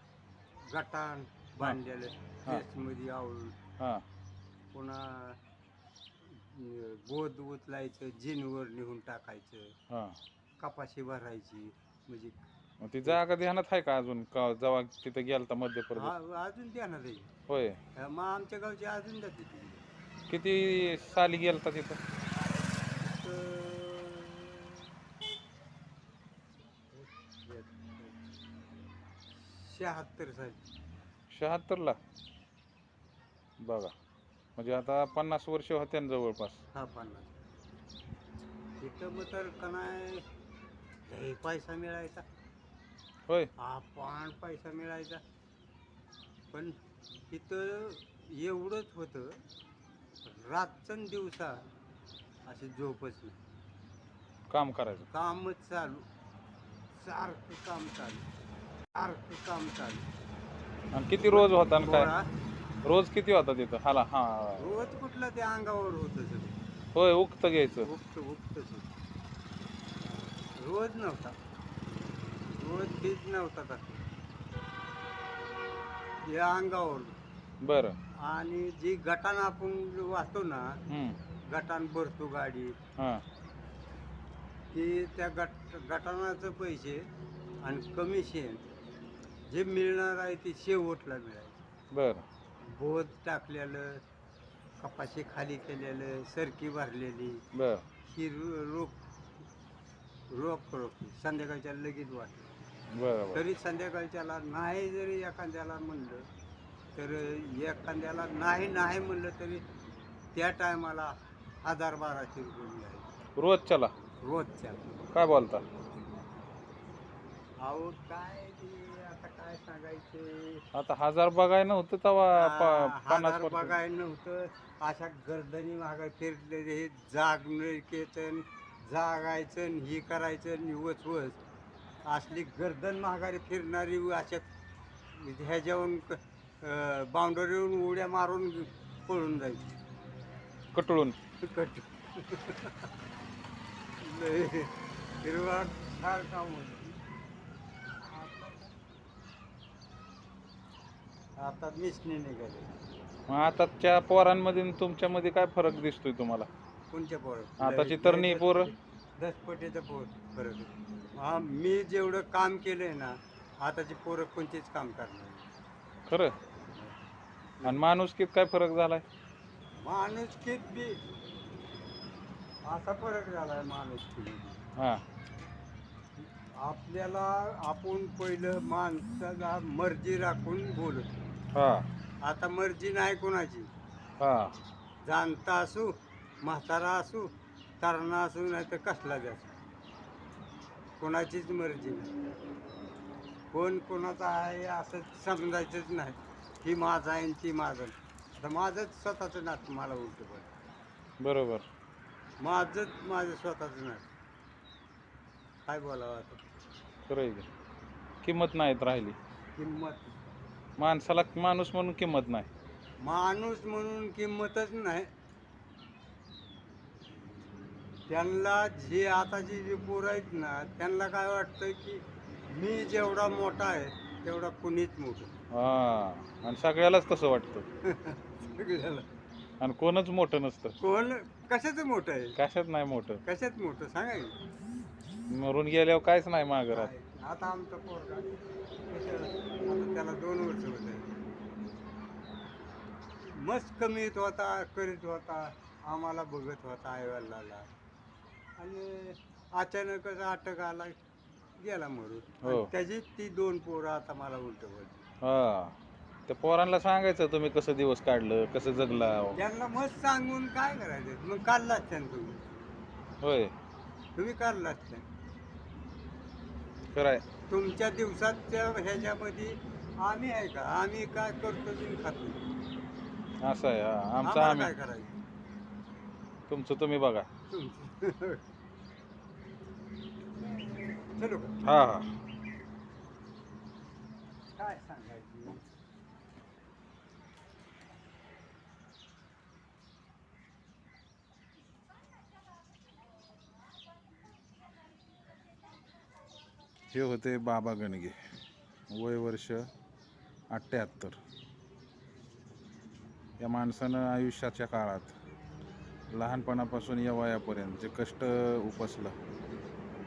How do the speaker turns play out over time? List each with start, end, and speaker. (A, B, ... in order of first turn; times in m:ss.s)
0:00.7-0:03.6 A
0:03.8-0:04.0 B
0:04.7-0:05.4 A
0:06.2-0:09.7 A
0:09.9-0:10.2 B
0:10.6-0:12.4 A
0:12.8-0:16.1 B
0:15.9-0:17.3 A
0:17.5-0:17.8 B
0:18.0-0:19.9 A
0:20.3-0:22.0 B
0:23.0-0:24.9 A
0:26.9-0:28.2 A
0:29.4-0:30.6 A
0:31.3-0:32.0 B
0:33.6-0:33.9 B
0:34.6-0:36.6 B
0:36.7-0:37.4 A
0:38.8-0:40.2 A
0:41.1-0:42.2 A
0:43.6-0:45.2 A
0:47.3-0:49.4 A
0:50.2-0:51.6 A
0:52.5-0:53.4 A
0:54.5-0:55.1 B
0:55.1-0:56.0 A
0:56.9-0:58.2 A
0:58.9-1:00.0 A
1:00.9-1:02.1 B
1:01.2-1:02.2 A
1:02.8-1:04.8 B
1:04.6-1:06.6 A
1:06.9-1:07.9 B
1:07.7-1:08.9 A
1:10.6-1:11.3 A
1:12.5-1:14.0 A
1:16.2-1:17.1 A
1:17.6-1:18.0 B
1:18.2-1:20.8 A
1:20.9-1:21.2 B
1:21.5-1:22.8 A
1:23.0-1:23.2 B
1:24.7-1:27.0 A
1:27.6-1:28.6 A
1:29.5-1:31.6 A
1:31.9-1:32.2 B
1:32.6-1:34.0 A
1:34.8-1:37.4 A
1:37.5-1:37.8 B
1:38.0-1:39.0 A
1:40.3-1:42.5 A
1:42.9-1:43.4 B
1:43.3-1:46.2 A
1:46.9-1:49.6 A
1:50.3-1:53.0 A
1:53.4-1:53.9 B
1:54.1-1:55.0 A
1:55.1-1:55.6 B
1:57.6-2:00.6 A
2:00.7-2:03.7 B
2:02.3-2:11.4 A
2:12.0-2:14.4 A
2:15.1-2:19.7 A
2:20.7-2:21.2 B
2:21.4-2:22.9 A
2:24.0-2:24.7 A
2:25.2-2:27.0 A
2:28.0-2:28.7 A
2:31.4-2:32.7 A
2:33.3-2:36.5 B
2:36.9-2:45.5 A
2:37.6-2:38.7 B
2:46.1-2:46.4 B
2:47.6-2:49.0 B
2:49.8-2:51.0 A
2:52.6-2:54.6 A
2:54.8-2:55.0 B
2:56.2-3:01.2 A
3:01.5-3:01.8 B
3:02.2-3:03.7 A
3:04.2-3:04.5 B
3:05.0-3:05.9 A
3:06.4-3:09.6 A
3:11.0-3:12.1 A
3:13.5-3:20.6 A
3:21.2-3:21.6 B
3:22.4-3:24.1 A
3:25.6-3:26.4 A
3:27.1-3:27.5 B
3:28.2-3:29.2 B
3:29.6-3:30.3 A
3:30.8-3:32.5 B
3:33.0-3:35.1 A
3:38.1-3:45.3 A
3:45.5-3:47.6 B
3:47.8-3:49.0 A
3:49.6-3:50.8 B
3:50.8-3:52.4 A
3:52.4-3:53.2 B
3:53.2-3:54.3 A
3:55.3-3:56.9 B
3:56.7-3:58.3 A
3:58.9-4:01.1 A
4:03.2-4:07.6 A
4:08.6-4:10.9 A
4:11.6-4:15.0 A
4:12.4-4:12.7 B
4:15.2-4:15.7 B
4:16.3-4:19.4 B
4:19.3-4:22.4 A
4:23.2-4:23.5 B
4:24.2-4:25.0 A
4:26.9-4:27.2 B
4:27.5-4:32.4 A
4:33.4-4:34.7 B
4:34.2-4:35.1 A
4:36.5-4:37.3 B
4:37.5-4:38.4 A
4:40.4-4:41.6 A
4:41.6-4:42.1 B
4:44.6-4:45.6 A
4:56.9-4:58.1 B
4:58.9-4:59.7 B
5:00.5-5:01.2 B
5:03.4-5:05.1 B
5:06.1-5:09.1 B